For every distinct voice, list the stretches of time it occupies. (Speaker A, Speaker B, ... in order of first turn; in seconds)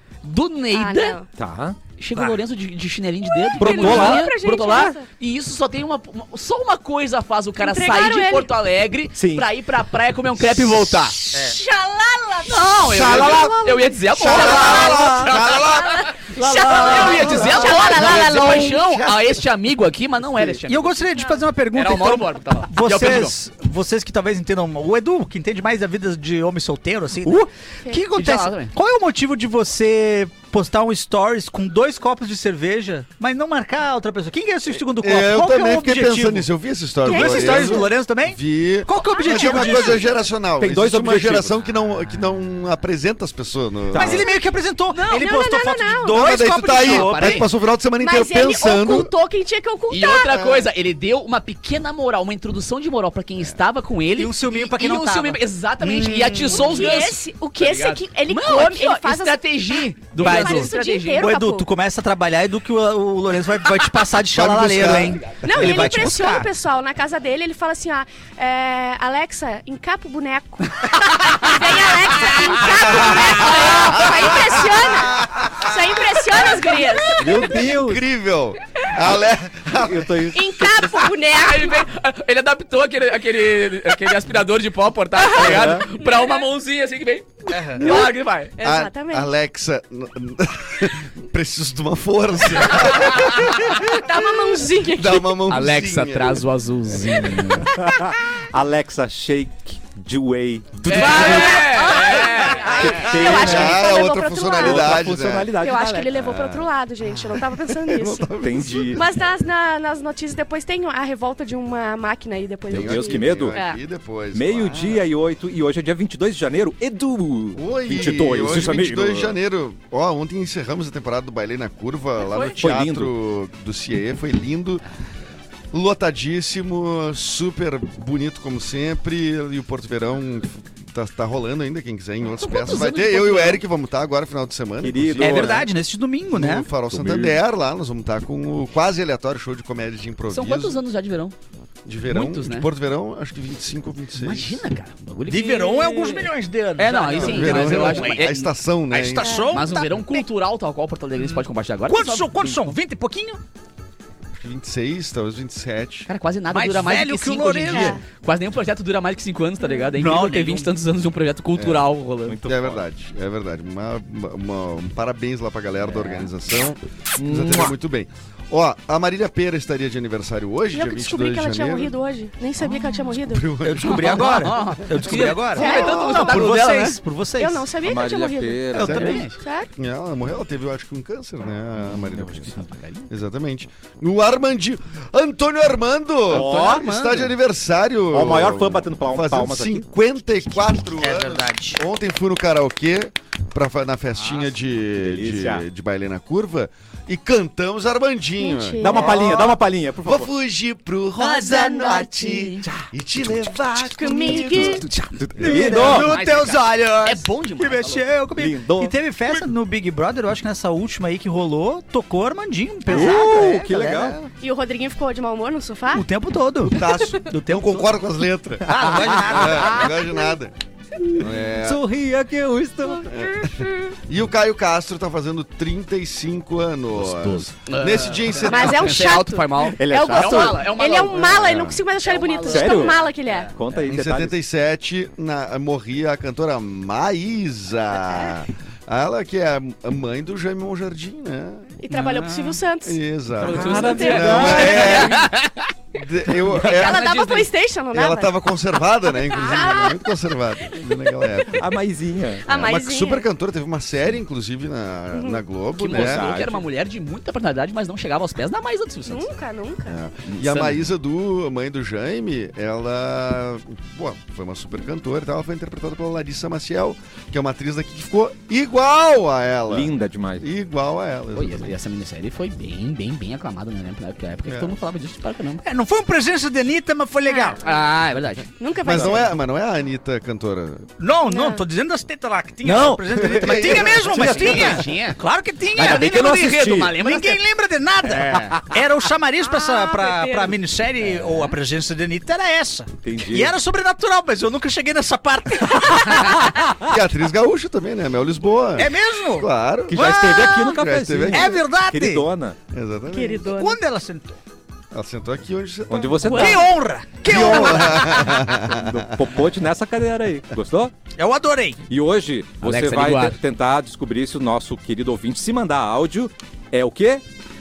Speaker A: 0.2-1.2, 2.0-11.2, 12.5-21.1, 21.7-23.3, 28.2-28.7, 46.7-47.5, 49.9-61.3, 81.3-88.5, 95.5-97.7, 100.9-103.1, 122.2-122.5, 132.3-133.6, 140.3-141.3, 142.1-142.7, 144.2-152.7, 156.1-162.4, 174.0-177.0, 178.8-179.4, 186.3-187.3, 205.8-208.1, 227.0-231.4, 232.0-233.9, 243.5-245.7, 246.5-247.5, 255.8-259.3, 260.3-260.8, 271.3-275.6, 277.6-278.5, 284.1-285.2, 285.8-287.4, 288.1-288.6, 312.6-313.4
Speaker B: 0.7-1.3, 3.5-5.1, 7.6-8.5, 11.3-18.8, 21.2-21.4, 37.0-37.9, 39.1-40.1, 44.9-46.3, 48.0-50.5, 56.5-61.7, 65.4-77.6, 80.3-81.8, 85.2-86.4, 87.8-89.3, 93.8-95.4, 101.2-105.0, 105.5-108.3, 108.9-113.7, 149.2-150.2, 157.7-158.0, 170.7-173.5, 175.6-176.6, 177.4-179.7, 198.4-199.4, 201.2-202.6, 204.0-204.9, 212.9-213.4, 214.4-216.0, 216.7-217.0, 219.9-220.3, 228.4-233.5, 241.8-244.8, 246.7-248.3, 249.1-250.1, 252.4-253.2, 255.1-255.4, 259.1-260.0, 277.2-277.8, 278.6-279.3, 281.3-281.6, 289.4-290.6, 303.1-303.8, 306.2-306.6
Speaker C: 1.4-1.8, 3.6-4.9, 9.2-9.5, 12.9-13.5, 14.2-15.7, 16.4-17.8, 40.6-41.5, 43.9-44.2, 77.2-78.0, 79.8-81.1, 85.4-85.9, 97.7-101.6, 102.7-104.0, 104.5-106.1, 108.4-109.0, 112.7-113.6, 114.3-119.3, 122.6-123.1, 134.8-135.7, 136.9-137.4, 162.3-162.8, 167.2-167.8, 177.8-179.3, 186.3-186.8, 188.1-189.8, 195.0-195.6, 198.8-200.3, 204.3-206.2, 208.3-208.9, 212.9-214.3, 221.6-223.5, 229.8-231.0, 232.4-233.0, 233.5-234.3, 243.4-245.1, 251.6-252.5, 255.9-256.6, 269.7-270.5, 282.6-284.9, 285.8-287.0, 293.0-293.5, 299.9-302.6, 305.9-306.7, 307.2-310.9, 311.9-317.2
Speaker D: 11.3-11.6, 20.7-36.5, 37.0-40.0, 43.9-47.4, 54.2-57.0, 60.2-66.5, 87.5-87.8, 135.2-136.7, 145.3-148.3, 149.2-149.8, 151.9-153.4, 156.5-158.0, 160.0-160.7, 173.6-177.7, 178.8-179.3, 191.0-191.8, 205.4-214.1, 215.9-216.8, 217.3-217.8, 218.7-219.8, 241.9-242.6, 275.6-277.6, 281.0-296.5, 298.8-300.8, 301.3-302.3, 303.5-304.4, 306.3-308.4, 311.2-311.8
Speaker E: 12.9-13.5, 14.2-16.1, 17.0-19.4, 34.9-44.2, 46.1-49.1, 64.3-66.0, 72.6-76.8, 77.3-80.3, 88.6-94.1, 94.8-96.5, 100.8-102.1, 102.8-105.5, 106.1-109.1, 112.7-115.0, 117.5-124.8, 125.7-135.7, 136.3-140.8, 141.9-144.6, 147.2-149.4, 154.3-156.1, 161.6-161.9, 162.5-171.9, 173.2-174.4, 175.6-176.4, 178.8-179.2, 179.8-205.7, 213.8-214.2, 216.7-220.5, 221.2-221.8, 223.1-228.9, 231.0-231.8, 233.8-241.8, 242.8-245.3, 245.9-247.1, 247.9-251.6, 252.5-256.3, 259.9-271.8, 274.5-274.8, 278.8-280.9, 283.3-284.1, 296.9-301.6, 302.7-303.5, 304.9-306.5, 307.3-309.2